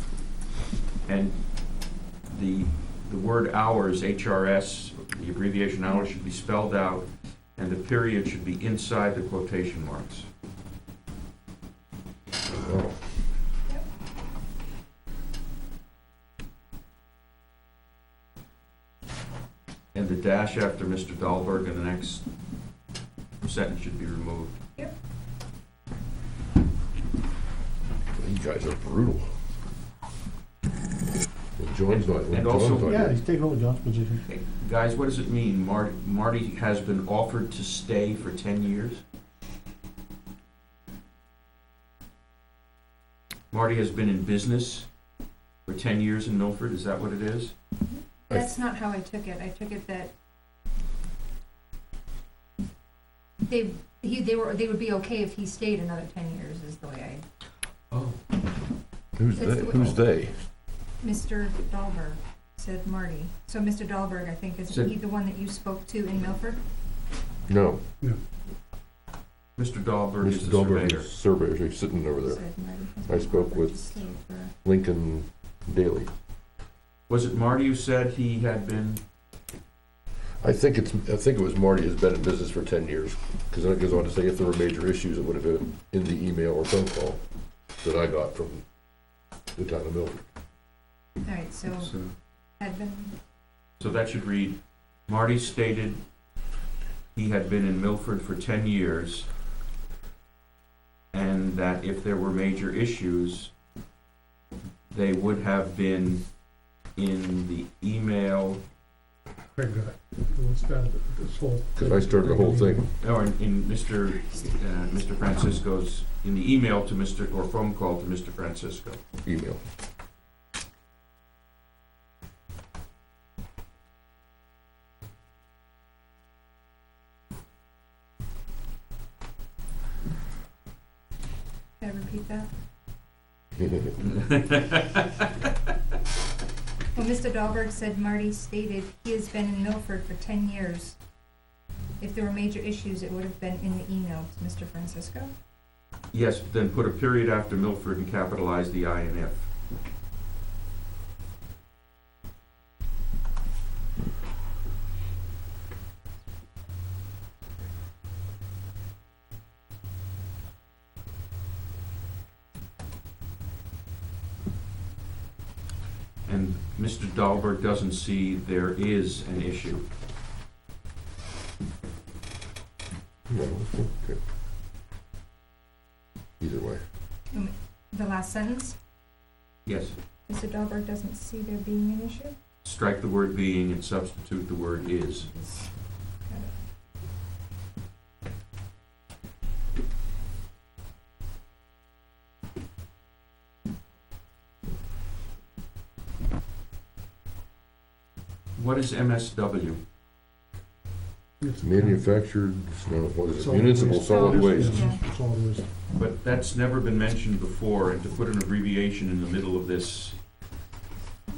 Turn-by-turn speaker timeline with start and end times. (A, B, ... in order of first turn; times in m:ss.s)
0:01.0-0:10.2 A
0:12.5-0:13.1 B
0:19.9-0:22.2 A
0:23.4-0:24.6 A
0:28.1-0:29.3 B
0:31.6-0:33.2 B
0:31.9-0:33.0 A
0:32.8-0:34.3 C
0:34.3-0:39.0 A
0:43.5-0:44.9 A
0:45.6-0:47.5 A
0:47.9-0:50.1 D
0:53.4-0:57.2 D
0:57.9-0:58.2 A
0:59.2-1:00.4 B
0:59.3-1:00.0 D
1:01.0-1:06.6 D
1:07.5-1:07.8 B
1:09.6-1:11.1 A
1:10.2-1:14.0 B
1:12.2-1:14.5 D
1:14.6-1:16.1 B
1:17.1-1:19.0 A
1:20.4-1:27.2 B
1:27.8-1:28.6 B
1:29.6-1:30.2 B
1:31.2-1:33.2 D
1:31.7-1:32.1 A
1:33.8-1:36.0 A
1:37.1-1:39.3 A
1:41.1-1:43.5 A
1:44.9-1:46.2 A
1:47.0-1:48.6 A
1:49.5-1:52.9 C
1:51.7-1:52.8 B
1:53.0-1:59.0 A
1:59.2-1:59.6 B
2:11.8-2:12.5 D
2:14.0-2:15.4 A
2:16.9-2:21.0 D
2:22.0-2:25.3 D
2:26.1-2:29.5 A
2:46.2-2:49.8 A
2:53.3-2:54.2 B
2:56.4-2:56.8 B
2:57.3-2:58.8 D
2:59.6-3:00.0 A
3:00.3-3:02.4 D
3:02.6-3:05.3 A
3:05.2-3:06.6 D
3:18.5-3:19.8 A
3:21.4-3:22.0 C
3:21.6-3:24.9 B
3:23.4-3:25.7 C
3:24.1-3:25.0 D
3:25.9-3:30.2 A